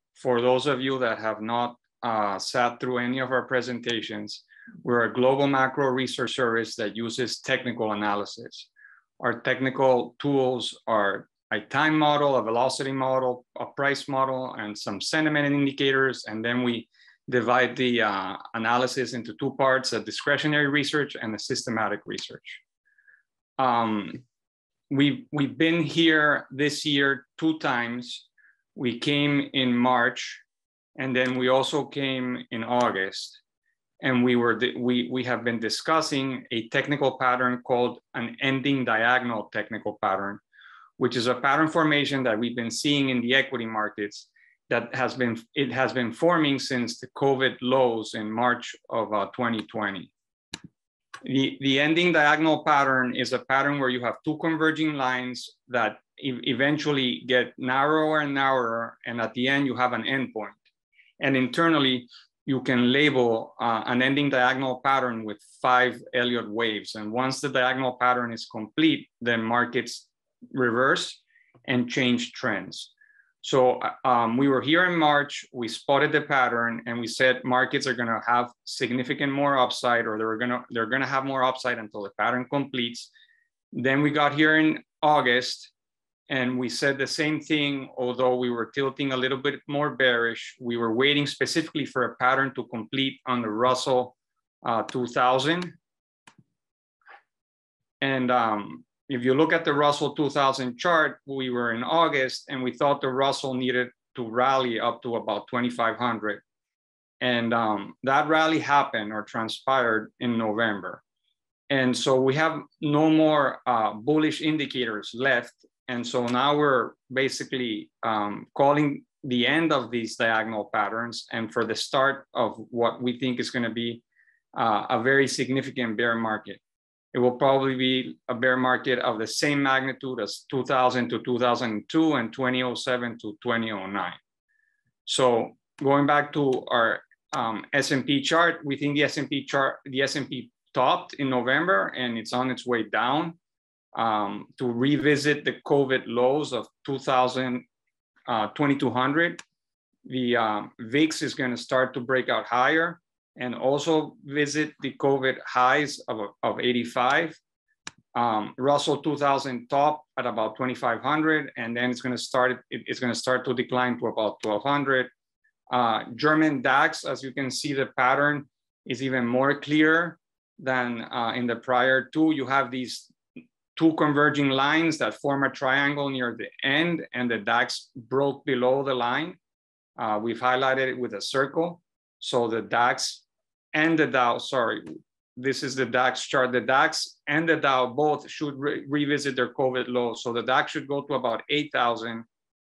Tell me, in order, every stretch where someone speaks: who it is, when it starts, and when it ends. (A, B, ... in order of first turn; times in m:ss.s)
0:00.2-0:08.7 A
0:09.2-0:22.6 A
0:23.6-0:24.2 A
0:24.9-0:30.4 A
0:31.0-0:33.4 A
0:34.0-0:40.4 A
0:41.0-0:50.1 A
0:51.2-1:00.6 A
1:01.2-1:12.9 A
1:13.4-1:23.1 A
1:23.7-1:25.7 A
1:26.3-1:35.8 A
1:38.0-1:46.4 A
1:47.2-1:51.0 A
1:51.7-2:04.0 A
2:04.5-2:06.6 A
2:07.1-2:14.2 A
2:15.1-2:23.4 A
2:24.0-2:27.6 A
2:28.3-2:29.4 A
2:30.0-2:37.4 A
2:38.1-2:45.1 A
2:45.7-2:53.1 A
2:53.8-2:59.4 A
3:00.0-3:03.2 A
3:03.7-3:12.2 A